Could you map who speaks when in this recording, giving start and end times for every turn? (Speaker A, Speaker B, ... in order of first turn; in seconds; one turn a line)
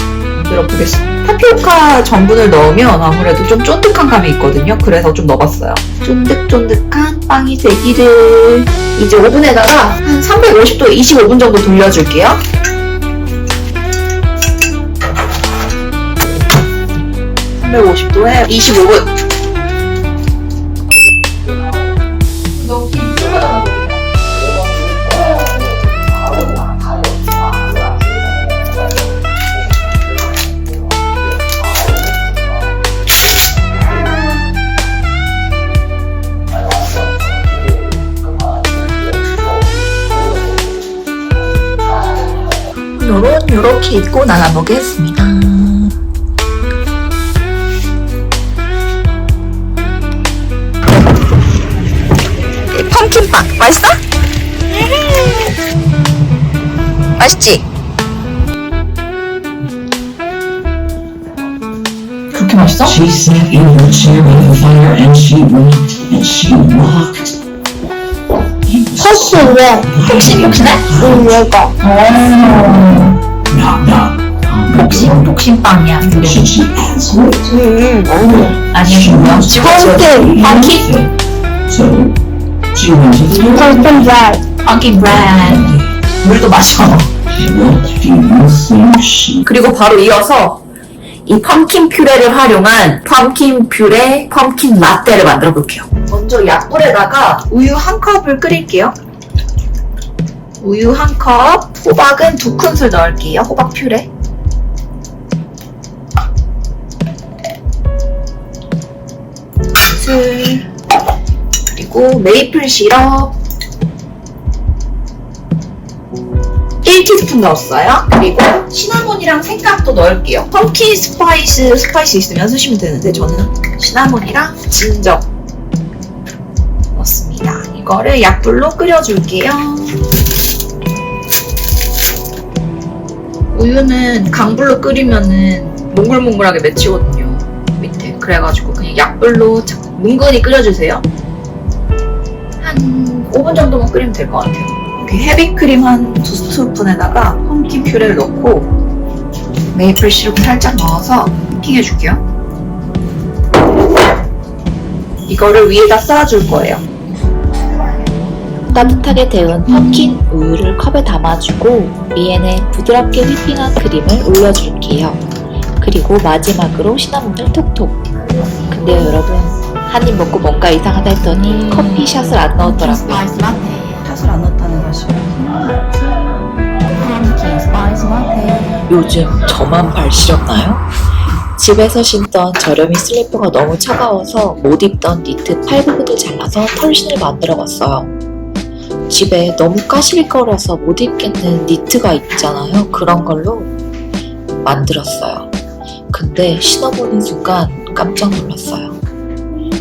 Speaker A: 0.3-12.4
Speaker A: 17.6-19.1
Speaker A: 22.6-24.0
Speaker A: 43.0-45.9
Speaker A: 52.7-54.0
Speaker A: 57.2-57.6
Speaker A: 62.3-63.0
Speaker B: 62.8-67.4
Speaker B: 68.8-71.5
Speaker C: 69.0-70.0
Speaker A: 70.0-70.9
Speaker C: 70.9-71.8
Speaker A: 71.9-72.2
Speaker B: 72.2-75.4
Speaker A: 74.8-76.1
Speaker B: 76.0-77.5
Speaker C: 77.5-78.3
Speaker B: 78.0-81.1
Speaker A: 78.7-80.6
Speaker C: 79.6-80.8
Speaker B: 81.7-82.2
Speaker B: 82.7-84.3
Speaker C: 83.5-84.5
Speaker A: 84.7-85.6
Speaker B: 84.9-85.9
Speaker A: 86.2-87.1
Speaker B: 87.3-89.5
Speaker A: 89.5-90.6
Speaker A: 91.3-99.0
Speaker A: 100.6-104.1
Speaker A: 109.8-110.7
Speaker A: 111.8-113.3
Speaker A: 116.8-125.3
Speaker A: 127.0-130.0
Speaker A: 133.5-141.1
Speaker A: 142.6-148.7
Speaker A: 149.7-152.2
Speaker A: 155.3-156.8
Speaker D: 158.7-165.2
Speaker D: 165.8-168.0
Speaker D: 168.7-173.3
Speaker A: 171.7-176.1
Speaker A: 177.0-178.8
Speaker D: 178.9-180.8
Speaker D: 181.6-188.1
Speaker D: 189.1-193.7
Speaker D: 194.6-195.5
Speaker D: 196.1-199.0